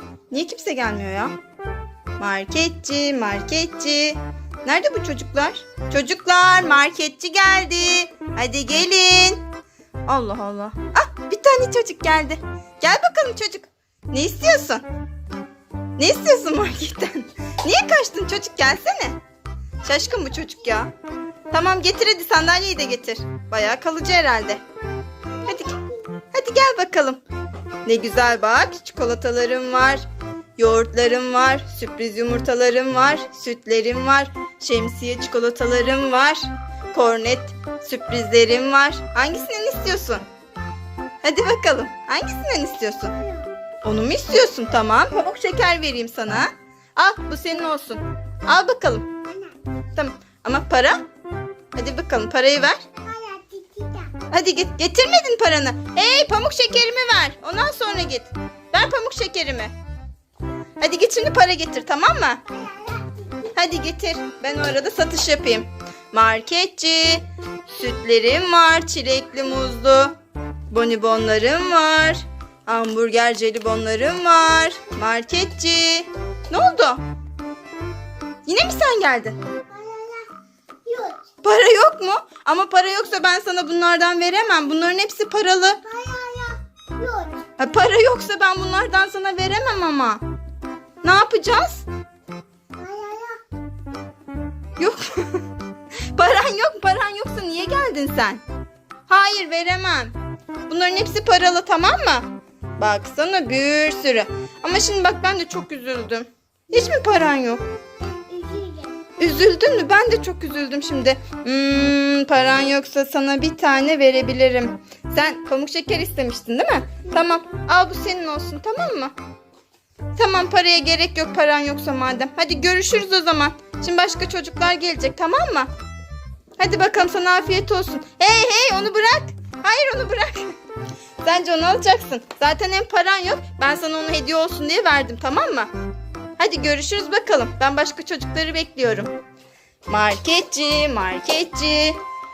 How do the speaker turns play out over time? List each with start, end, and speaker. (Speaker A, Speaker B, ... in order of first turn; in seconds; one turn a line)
Speaker A: 0.3-1.3
Speaker A: 2.2-9.4
Speaker A: 10.1-14.8
Speaker A: 16.0-19.2
Speaker A: 19.8-20.9
Speaker A: 21.5-24.6
Speaker A: 25.4-27.2
Speaker A: 27.8-30.0
Speaker A: 30.6-40.2
Speaker A: 41.2-43.2
Speaker A: 43.8-49.2
Speaker A: 49.9-51.0
Speaker A: 51.7-52.8
Speaker B: 53.1-54.1
Speaker A: 54.2-59.7
Speaker A: 60.8-62.4
Speaker A: 63.5-70.2
Speaker A: 70.7-77.0
Speaker A: 78.5-79.4
Speaker B: 79.8-80.2
Speaker B: 80.8-81.2
Speaker A: 81.4-85.8
Speaker B: 86.0-87.4
Speaker A: 87.6-90.2
Speaker A: 91.0-91.8
Speaker B: 92.8-93.4
Speaker A: 94.8-95.5
Speaker A: 96.1-98.4
Speaker A: 99.1-100.2
Speaker A: 100.7-107.6
Speaker B: 108.3-108.9
Speaker A: 109.2-119.1
Speaker A: 120.1-125.7
Speaker A: 126.6-130.5
Speaker A: 131.2-135.7
Speaker A: 136.4-139.1
Speaker A: 139.9-142.0